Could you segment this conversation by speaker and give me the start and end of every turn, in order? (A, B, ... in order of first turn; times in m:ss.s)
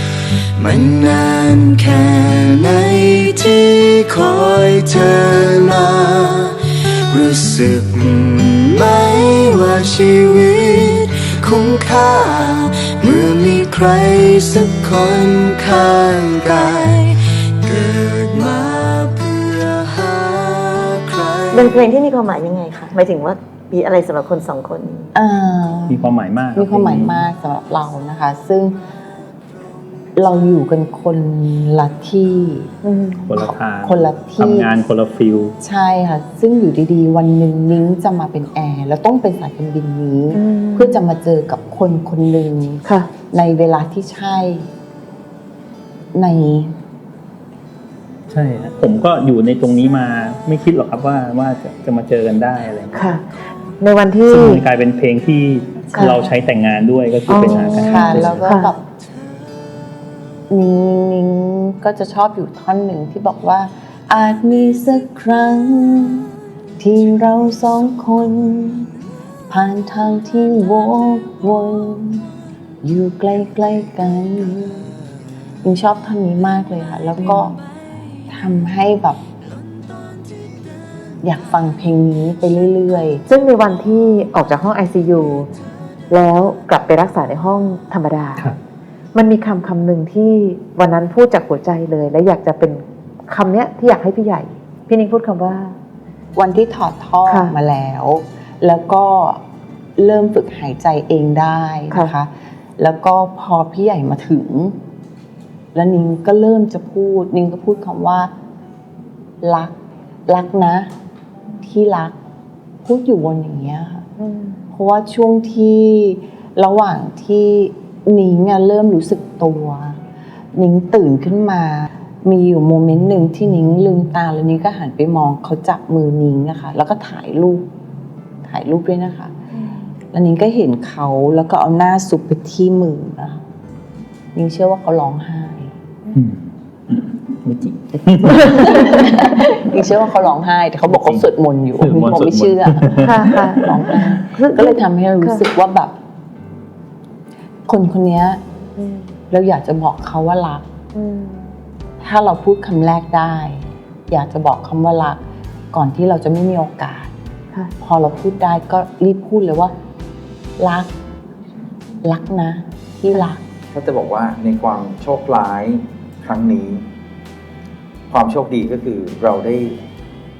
0:00.6-0:21.9 A
0:21.5-0:25.1 B
0:25.1-0:26.0 C
0:25.9-0:27.3 D
0:26.6-0:28.8 C
0:30.2-0:32.7 C
0:32.8-0:33.3 E
0:33.3-0:35.6 D
0:33.4-0:34.7 C
0:35.6-0:44.7 C
0:40.3-0:41.0 E
0:42.8-0:43.1 E
0:46.1-0:46.7 C
0:48.3-0:53.2 D
0:52.9-0:53.2 E
0:53.8-0:54.6 E
0:54.3-0:58.5 D
0:55.9-0:56.2 C
0:57.3-0:58.7 E
0:57.7-0:58.8 C
1:00.5-1:08.9 C
1:09.5-1:12.3 C
1:12.8-1:15.0 C
1:15.6-1:17.6 C
1:18.3-1:19.2 C
1:21.2-1:23.2 C
1:23.3-1:25.5 E
1:26.1-1:28.5 E
1:29.2-1:35.8 E
1:36.4-1:39.4 C
1:37.3-1:37.5 E
1:40.0-1:44.8 C
1:45.7-1:48.3 C
1:49.4-1:49.7 C
1:50.3-1:50.9 C
1:51.6-1:52.2 C
1:52.8-1:54.1 C
1:54.2-1:54.6 E
1:54.7-2:00.0 C
2:00.6-2:07.7 C
2:08.4-2:09.3 C
2:10.1-2:13.4 C
2:14.4-2:15.7 C
2:16.1-2:19.0 D
2:17.9-2:25.9 C
2:20.8-2:23.8 D
2:23.0-2:25.4 E
2:27.7-2:28.4 C
2:28.8-2:29.1 E
2:29.3-2:30.6 C
2:30.9-2:31.5 E
2:32.0-2:35.2 C
2:35.7-2:37.1 C
2:37.8-2:39.8 C
2:40.6-2:40.9 C
2:42.0-2:43.4 C
2:43.7-2:46.8 F
2:48.1-2:49.8 F